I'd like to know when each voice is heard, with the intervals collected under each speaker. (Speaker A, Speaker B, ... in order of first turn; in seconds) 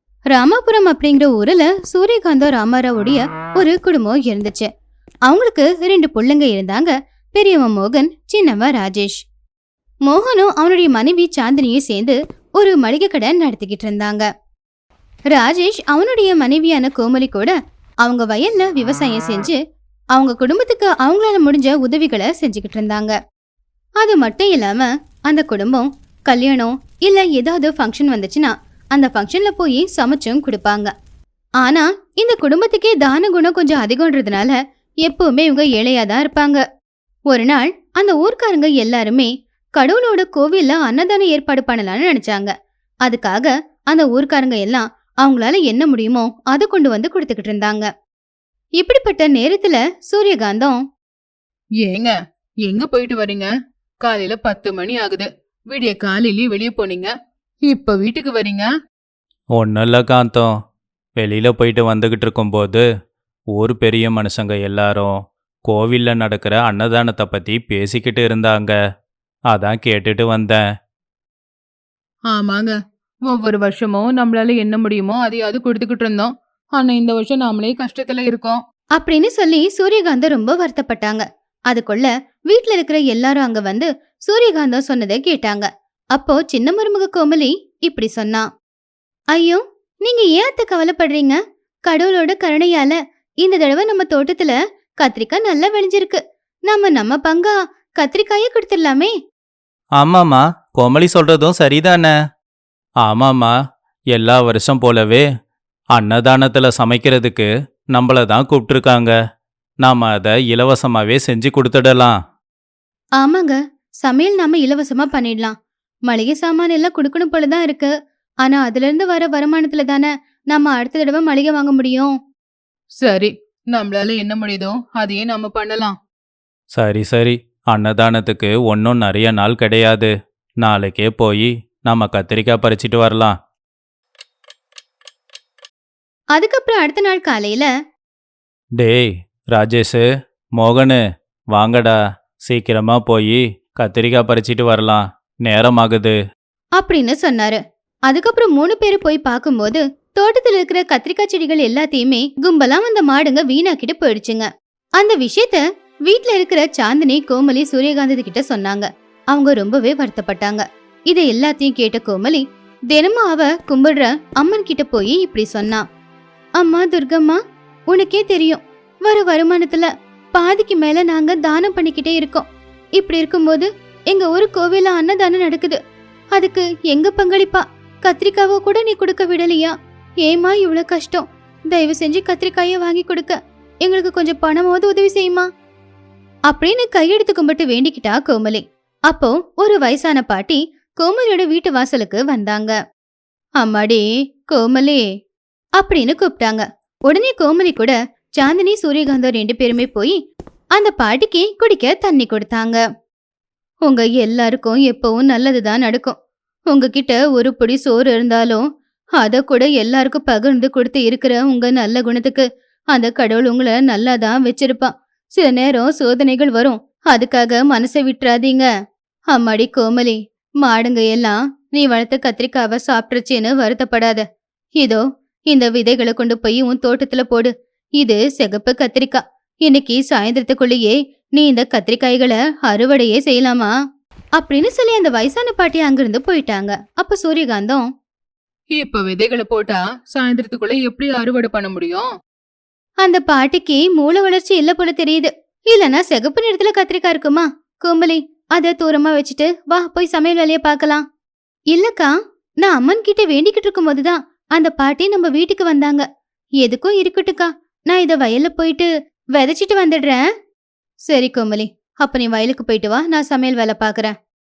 Speaker A: 0.3-4.7, 5.3-9.2, 10.1-14.3, 15.3-19.6, 20.1-23.2, 24.0-30.9, 31.6-36.6, 37.3-42.5, 43.0-47.9, 48.8-50.8, 79.0-88.5, 89.3-99.1, 113.2-115.5, 116.1-117.9, 118.4-122.1, 136.3-137.7, 146.8-165.8, 166.6-167.4, 167.9-172.4, 173.0-175.8, 176.3-179.7, 180.2-185.5, 186.5-192.8, 193.6-195.0, 195.8-200.2, 200.8-202.8, 203.8-206.2, 206.7-208.6, 209.2-218.7, 219.3-224.2, 224.8-233.7, 234.4-237.8, 243.0-251.0, 251.7-252.1, 252.6-256.0, 256.6-260.2, 261.1-264.1
Speaker B: 51.8-52.1, 52.7-53.5, 54.0-57.1, 57.7-58.7, 72.3-72.8, 73.3-78.6, 123.0-126.0, 238.8-242.1
Speaker C: 59.6-60.5, 61.2-62.8, 63.5-65.1, 65.7-68.8, 69.5-70.6, 100.0-102.1, 103.0-103.5, 104.1-105.2, 106.0-109.1, 109.8-112.1, 126.8-130.1, 130.6-133.3, 138.8-140.0, 140.6-141.0, 141.5-146.2